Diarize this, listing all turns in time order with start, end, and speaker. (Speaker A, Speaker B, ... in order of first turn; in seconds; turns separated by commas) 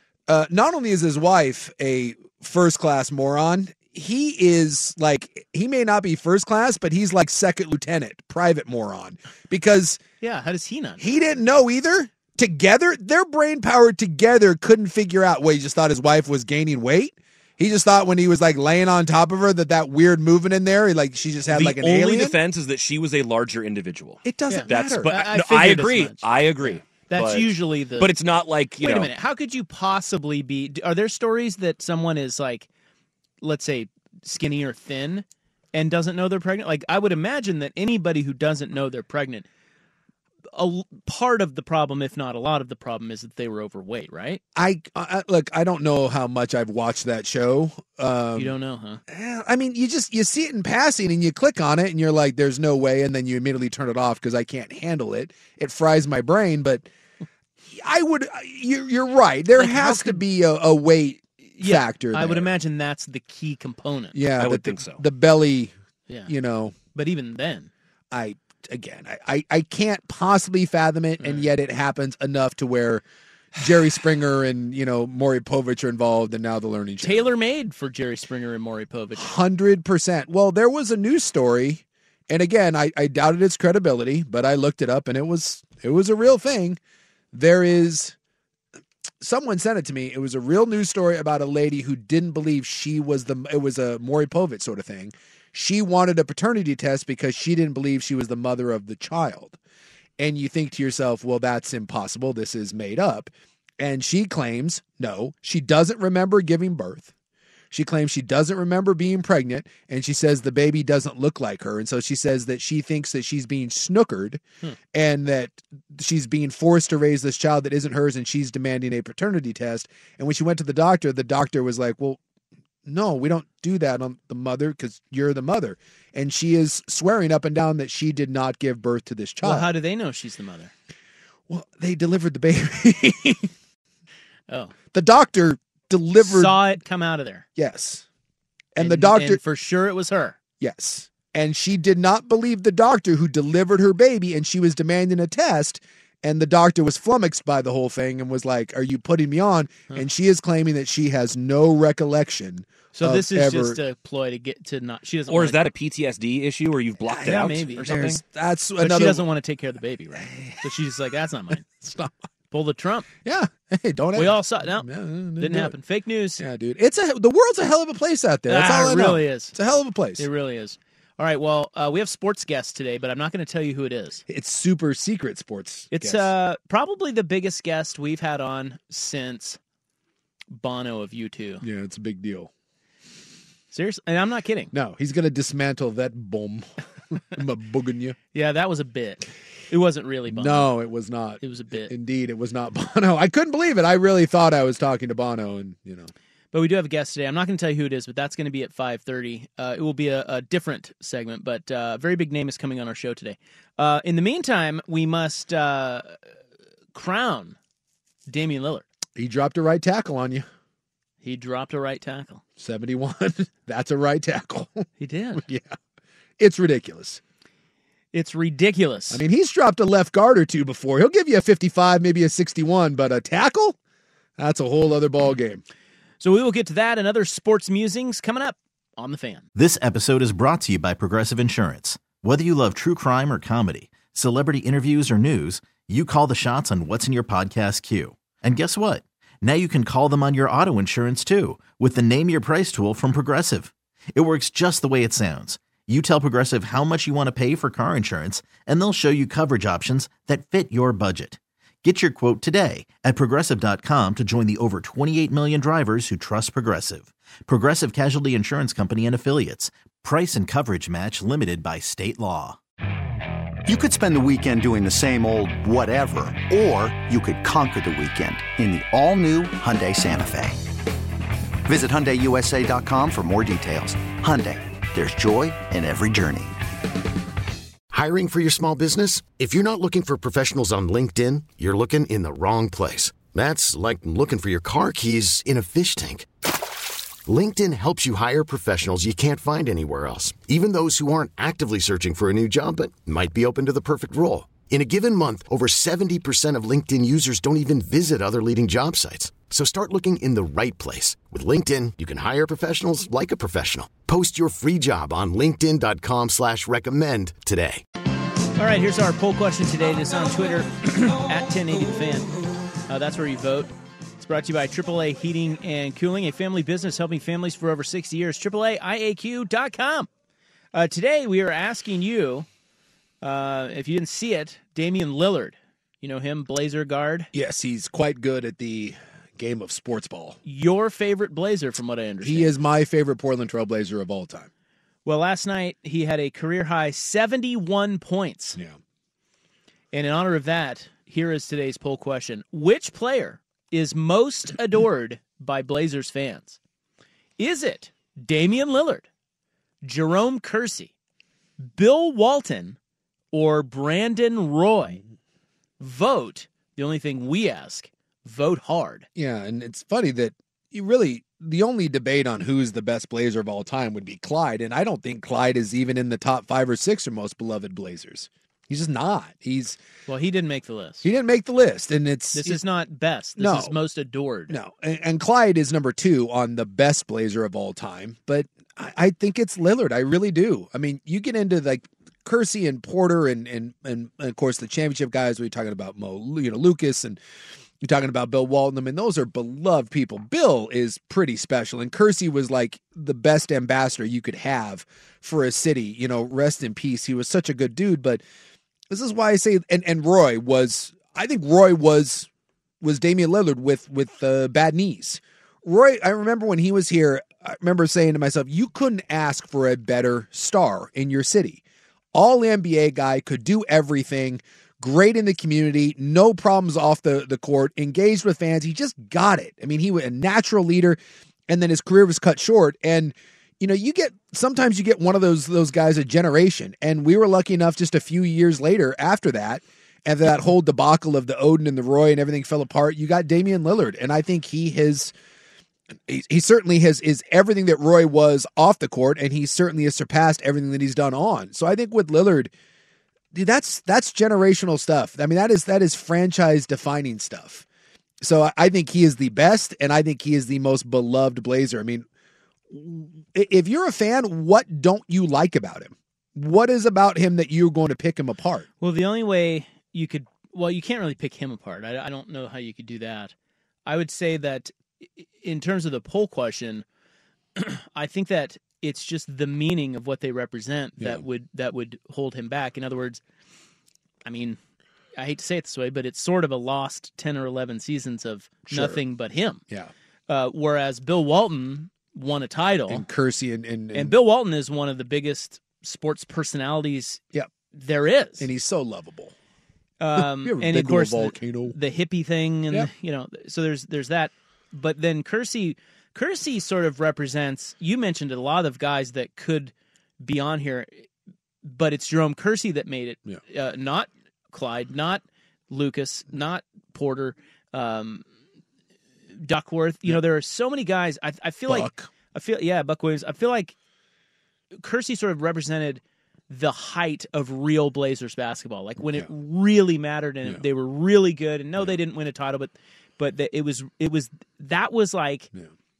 Speaker A: 0.3-10.0, Speaker B: 10.2-11.0, Speaker A: 11.0-22.4, Speaker C: 21.5-29.1, Speaker A: 24.2-25.2, Speaker B: 24.5-28.1, Speaker B: 28.8-32.7, Speaker B: 33.4-39.5, Speaker B: 40.5-44.4, Speaker A: 44.5-48.5, Speaker B: 48.4-49.0, Speaker A: 49.1-56.9, Speaker A: 57.7-62.5, Speaker B: 59.5-60.2, Speaker B: 61.5-64.2, Speaker A: 64.1-65.7, Speaker C: 64.4-65.0, Speaker A: 66.3-66.8, Speaker B: 66.9-67.7, Speaker A: 68.1-73.0, Speaker B: 71.2-71.5, Speaker A: 73.6-77.3, Speaker B: 77.0-79.3, Speaker A: 79.1-86.8, Speaker A: 87.3-88.1, Speaker A: 89.2-99.6, Speaker A: 100.2-107.1, Speaker A: 107.7-114.4, Speaker A: 114.9-122.2, Speaker A: 122.8-129.7, Speaker B: 129.4-130.7, Speaker A: 131.5-133.5, Speaker B: 134.5-134.7, Speaker A: 134.9-136.6, Speaker B: 136.2-137.4, Speaker A: 137.6-138.0, Speaker A: 138.7-139.4, Speaker B: 138.8-140.4, Speaker A: 140.6-153.8, Speaker B: 152.9-155.6, Speaker C: 155.3-158.1, Speaker A: 157.1-159.2, Speaker B: 157.1-158.2, Speaker B: 158.8-161.6, Speaker A: 160.2-160.6, Speaker A: 161.6-162.1, Speaker B: 162.5-163.1, Speaker A: 163.2-165.7, Speaker B: 164.1-164.8, Speaker B: 165.4-166.4, Speaker A: 166.4-170.3, Speaker B: 168.5-169.6, Speaker B: 170.2-174.2, Speaker A: 174.3-176.3, Speaker B: 175.9-179.6, Speaker B: 180.5-181.6, Speaker A: 181.6-182.5, Speaker B: 183.7-184.7, Speaker A: 184.7-188.2, Speaker B: 188.3-190.7, Speaker A: 190.3-196.1, Speaker B: 191.4-191.9, Speaker B: 196.5-206.2, Speaker B: 206.9-207.6, Speaker B: 208.3-208.8, Speaker A: 209.2-210.5, Speaker B: 211.2-212.4, Speaker A: 212.6-215.8, Speaker B: 215.0-215.4, Speaker A: 216.4-217.2, Speaker B: 218.1-219.2, Speaker A: 219.1-223.8, Speaker A: 224.4-225.6, Speaker B: 226.2-229.4, Speaker D: 229.6-262.6, Speaker E: 263.6-270.6, Speaker E: 271.6-276.6, Speaker F: 277.9-286.3, Speaker F: 287.3-307.8, Speaker B: 308.6-312.3, Speaker B: 312.9-320.1, Speaker B: 320.7-322.5, Speaker B: 323.2-327.3, Speaker A: 327.3-330.4, Speaker B: 330.4-332.5, Speaker A: 332.2-334.5, Speaker B: 335.0-338.6, Speaker B: 339.9-346.6, Speaker B: 347.4-349.1, Speaker B: 349.8-350.9, Speaker B: 351.6-352.8, Speaker B: 353.3-355.0, Speaker B: 355.8-359.1, Speaker A: 359.1-369.8, Speaker B: 370.1-371.1, Speaker A: 371.0-372.6, Speaker B: 372.3-374.6, Speaker A: 373.4-373.7, Speaker A: 374.5-387.2, Speaker A: 387.8-398.2, Speaker A: 398.9-402.3, Speaker A: 402.8-411.6, Speaker A: 412.1-435.1, Speaker A: 436.1-442.5, Speaker A: 443.3-447.6, Speaker A: 448.2-452.1, Speaker A: 452.7-458.7, Speaker B: 458.8-463.3, Speaker B: 463.9-466.8, Speaker B: 467.6-473.2, Speaker B: 474.2-474.6, Speaker B: 475.1-479.6, Speaker A: 478.7-479.0, Speaker B: 480.3-483.0, Speaker A: 482.9-484.2, Speaker B: 483.9-487.2, Speaker B: 487.7-488.5, Speaker A: 488.4-489.3, Speaker B: 490.0-501.1, Speaker A: 490.1-491.8, Speaker B: 501.6-508.2, Speaker B: 509.4-513.7, Speaker A: 511.7-512.1, Speaker B: 514.7-525.5